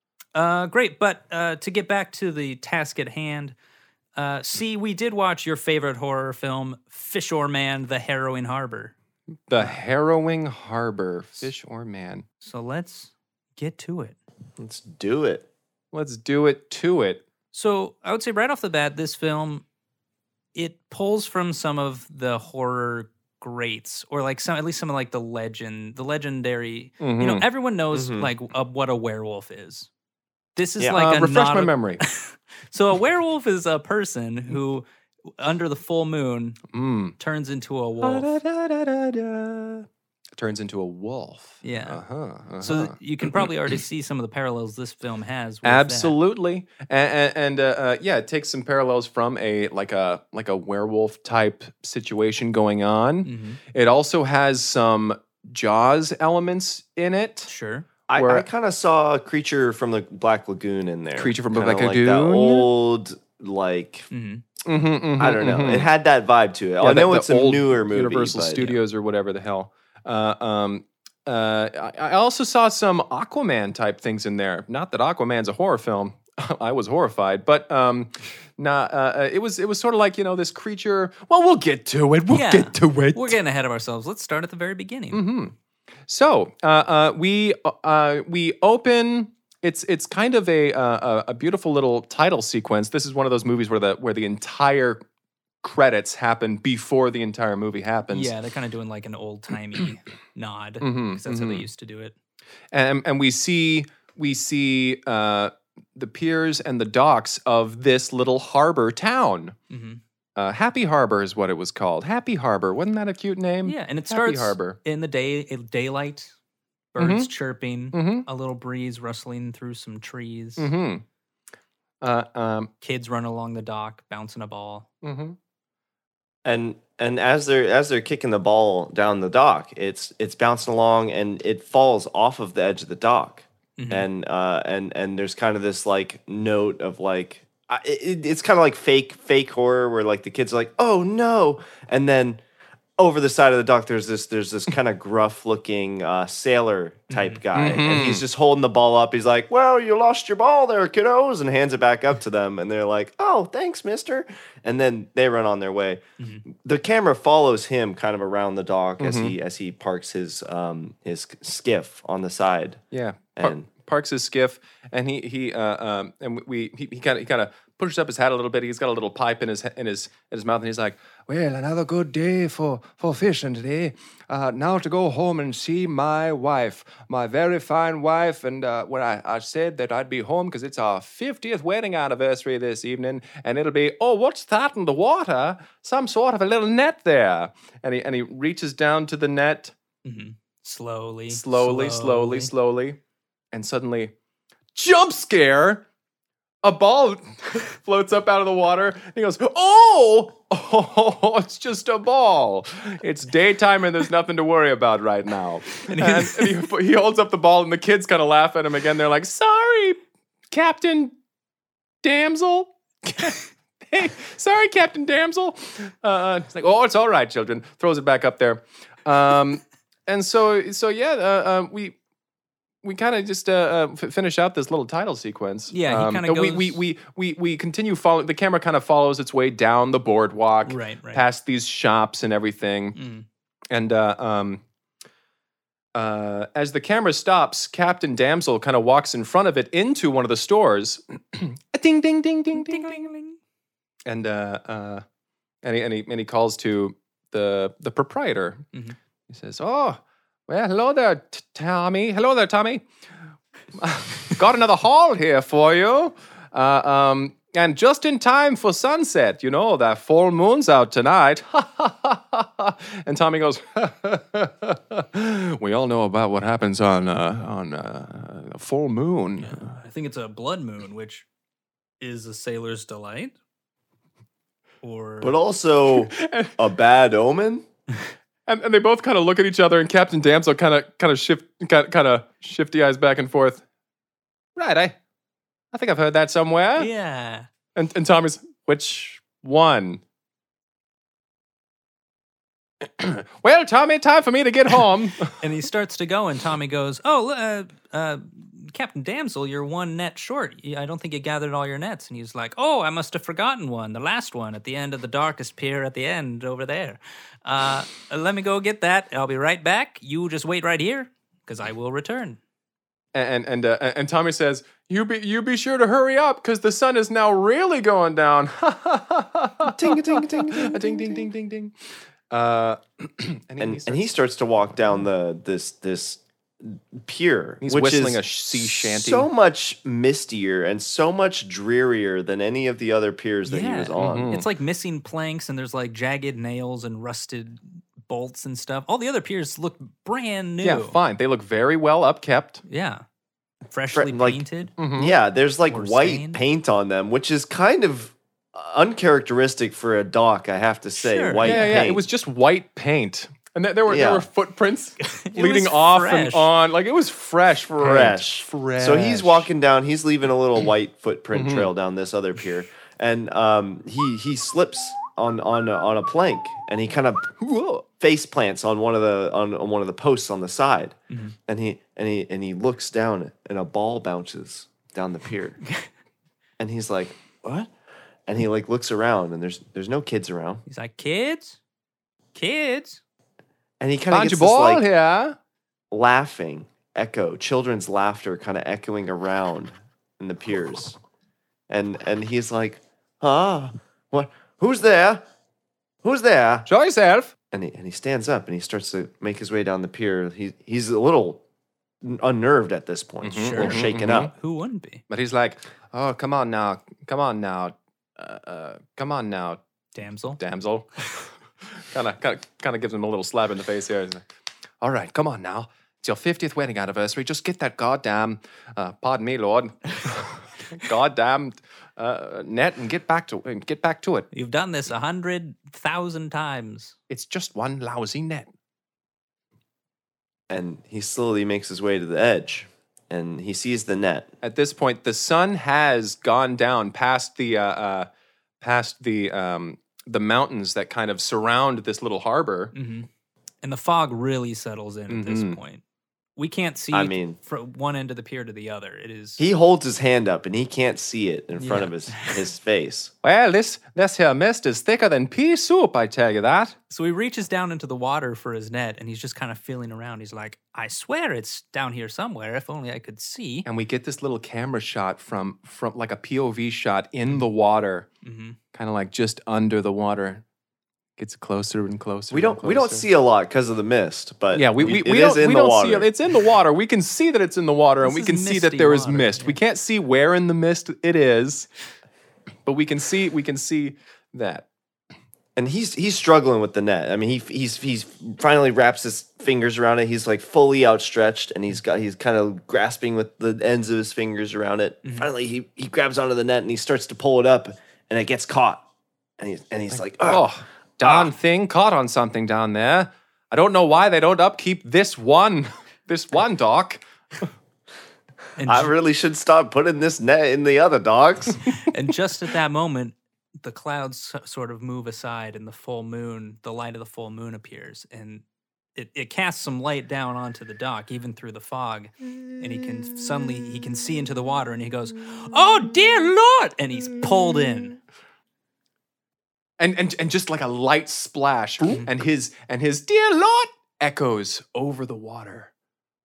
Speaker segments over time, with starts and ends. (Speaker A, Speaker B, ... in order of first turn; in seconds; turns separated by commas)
Speaker A: 0.3-3.5, Speaker A: 4.2-8.9, Speaker B: 9.5-12.2, Speaker A: 12.4-14.2, Speaker C: 14.6-15.5, Speaker B: 15.9-17.2, Speaker A: 17.5-19.6, Speaker A: 20.6-29.9, Speaker B: 27.0-27.5, Speaker C: 27.9-28.3, Speaker A: 30.6-34.9, Speaker B: 30.9-32.0, Speaker A: 35.4-36.6, Speaker B: 36.7-37.1, Speaker A: 37.2-38.3, Speaker B: 38.0-43.5, Speaker A: 41.6-42.0, Speaker A: 42.6-46.2, Speaker B: 45.6-57.5, Speaker A: 53.2-53.6, Speaker A: 57.5-57.9, Speaker C: 58.1-64.1, Speaker B: 58.1-58.5, Speaker B: 61.2-62.7, Speaker A: 64.1-64.4, Speaker B: 64.7-65.9, Speaker C: 65.2-68.7, Speaker B: 66.8-83.4, Speaker A: 82.3-85.2, Speaker B: 85.1-85.5, Speaker B: 86.1-95.0, Speaker B: 95.6-98.3, Speaker A: 98.1-102.2, Speaker B: 100.8-101.7, Speaker B: 102.7-109.6, Speaker A: 109.7-110.0, Speaker B: 110.4-114.8, Speaker A: 113.7-116.3, Speaker A: 116.9-120.7, Speaker B: 117.0-117.3, Speaker B: 117.9-118.3, Speaker B: 120.6-121.0, Speaker B: 122.0-122.7, Speaker A: 122.8-124.9, Speaker B: 125.0-125.4, Speaker C: 126.5-142.4, Speaker A: 133.8-134.1, Speaker C: 143.0-162.8, Speaker A: 147.1-147.4, Speaker B: 147.5-148.2, Speaker A: 156.2-156.4, Speaker B: 159.0-159.3, Speaker B: 162.9-189.7, Speaker C: 163.4-163.7, Speaker A: 190.0-192.5, Speaker B: 191.3-193.0, Speaker B: 193.5-194.1, Speaker B: 194.8-195.8, Speaker B: 196.6-210.0, Speaker A: 205.8-206.6, Speaker B: 210.5-211.1, Speaker B: 212.0-222.0, Speaker B: 222.8-233.0, Speaker A: 225.7-226.8, Speaker A: 230.7-231.2, Speaker A: 233.0-233.2, Speaker B: 233.7-234.6, Speaker B: 235.9-243.1, Speaker A: 242.5-243.4, Speaker B: 244.1-245.0, Speaker B: 245.6-248.6, Speaker B: 249.3-252.9, Speaker B: 253.8-269.8, Speaker A: 269.4-271.3, Speaker A: 272.0-273.4, Speaker A: 274.8-275.4, Speaker C: 275.2-277.6, Speaker B: 275.9-276.6, Speaker B: 278.5-283.6, Speaker B: 284.6-285.0, Speaker B: 285.7-286.9, Speaker A: 286.8-287.5, Speaker B: 287.8-290.0, Speaker B: 292.8-295.4, Speaker A: 295.4-312.4, Speaker B: 313.1-321.7, Speaker C: 319.6-321.3, Speaker B: 322.3-324.1, Speaker C: 323.6-334.3, Speaker B: 324.7-325.0, Speaker B: 327.6-329.3, Speaker A: 333.5-341.0, Speaker B: 334.0-334.5, Speaker B: 340.6-342.6, Speaker A: 342.7-343.0, Speaker A: 343.7-344.8, Speaker C: 343.9-352.0, Speaker B: 344.8-345.1, Speaker A: 345.7-346.4, Speaker A: 351.0-351.8, Speaker B: 351.4-359.5, Speaker C: 353.9-354.3, Speaker A: 355.0-356.5, Speaker C: 357.8-367.4, Speaker B: 361.3-361.7, Speaker B: 367.4-367.9, Speaker C: 368.0-370.9, Speaker A: 371.1-371.4, Speaker C: 371.5-375.6, Speaker C: 376.6-377.7, Speaker C: 378.3-380.6, Speaker A: 380.7-381.6, Speaker A: 382.3-383.0, Speaker C: 383.8-384.8, Speaker B: 384.1-385.4, Speaker C: 385.9-391.0, Speaker C: 391.7-395.2, Speaker C: 396.0-396.7, Speaker B: 396.7-397.3, Speaker C: 397.5-401.4, Speaker C: 402.0-404.3, Speaker B: 403.2-404.3, Speaker A: 403.4-405.0, Speaker B: 405.1-409.6, Speaker A: 409.9-410.4, Speaker B: 410.4-410.9, Speaker B: 411.8-414.2, Speaker B: 414.8-424.3, Speaker A: 424.3-427.0, Speaker B: 427.1-428.5, Speaker C: 430.5-434.3, Speaker B: 434.4-438.1, Speaker B: 438.6-442.7, Speaker A: 442.7-443.1, Speaker A: 443.6-445.8, Speaker B: 445.1-445.6, Speaker A: 446.4-449.4, Speaker C: 446.9-447.4, Speaker C: 449.4-453.1, Speaker A: 451.6-452.4, Speaker B: 453.2-456.8, Speaker A: 456.9-463.7, Speaker B: 463.6-468.1, Speaker A: 468.2-468.6, Speaker B: 468.7-470.4, Speaker B: 471.2-473.1, Speaker C: 472.3-476.1, Speaker B: 474.5-481.7, Speaker A: 478.0-479.6, Speaker B: 482.7-484.7, Speaker C: 485.6-498.8, Speaker C: 499.4-500.5, Speaker B: 500.3-507.4, Speaker C: 501.0-501.3, Speaker A: 508.6-508.9, Speaker C: 508.6-511.6, Speaker A: 511.8-518.4, Speaker A: 519.0-528.0, Speaker B: 529.8-535.7